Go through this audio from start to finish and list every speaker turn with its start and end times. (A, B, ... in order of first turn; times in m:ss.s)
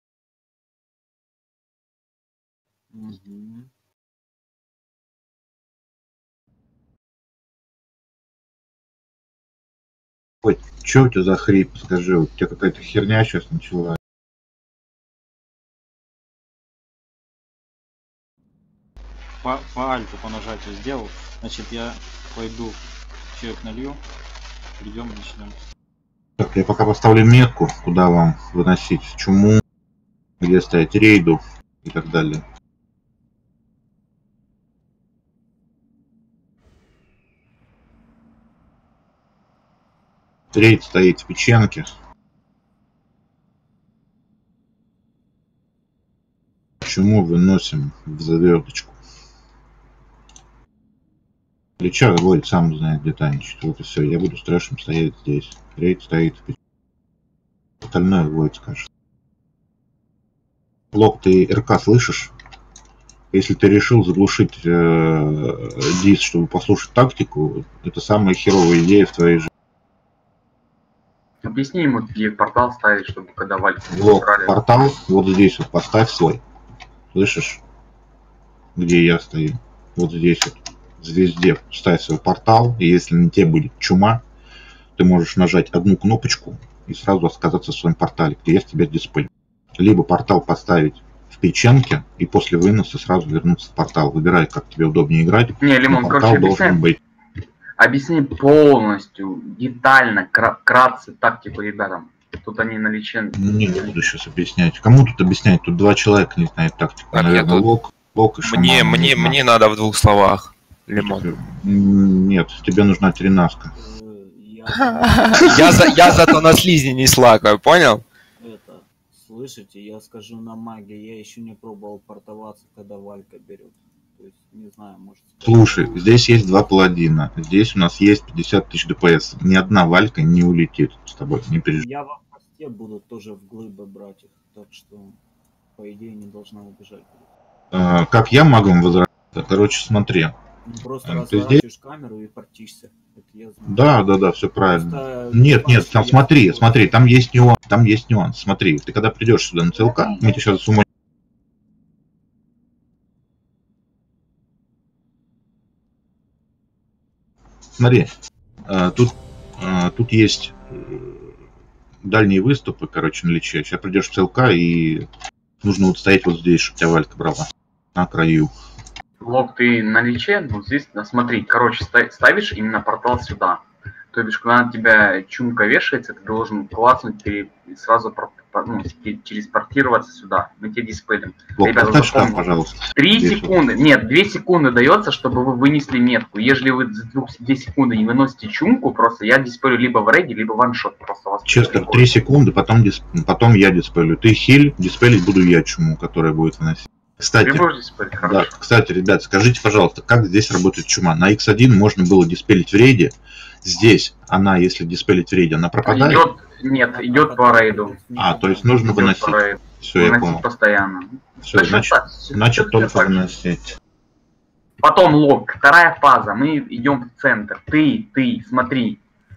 0:02.9-0:03.7 A
0:10.4-0:14.0 B
0:19.4-0:22.8 C
0:23.3-0:24.0 C
0:24.8-0:25.6 C
0:26.4-0:29.6 B
0:30.4-0:32.4 B
0:40.5-0:41.9 B
0:46.8-0:49.0 B
0:51.8-0:56.6 B
0:57.8-0:58.9 B
1:00.9-1:02.3 B
1:03.3-1:09.5 B
1:11.4-1:14.6 D
1:13.9-1:16.4 B
1:17.1-1:17.6 B
1:18.8-1:24.2 B
1:25.0-1:37.0 B
1:35.6-1:36.8 D
1:37.8-1:43.9 D
1:43.4-1:49.4 B
1:47.1-1:47.7 E
1:48.4-1:51.3 E
1:51.0-1:53.7 B
1:53.8-1:55.4 A
1:54.8-1:58.0 E
1:58.4-2:06.1 A
2:05.4-2:11.9 B
2:11.8-2:15.2 A
2:15.8-2:17.3 A
2:17.7-2:20.4 B
2:20.6-2:24.0 A
2:21.0-2:21.6 B
2:23.7-2:30.9 B
2:24.6-2:27.0 A
2:37.8-2:38.1 B
2:38.6-2:41.3 B
2:42.0-2:45.1 B
2:45.6-2:48.5 B
2:49.2-2:53.6 D
2:54.1-3:12.2 D
3:01.6-3:03.6 B
3:11.5-3:17.7 B
3:17.4-3:18.5 D
3:18.2-3:26.3 B
3:25.8-3:28.0 D
3:26.7-3:28.9 A
3:28.2-3:30.4 B
3:28.9-3:33.2 D
3:31.4-3:33.8 B
3:34.8-3:39.0 D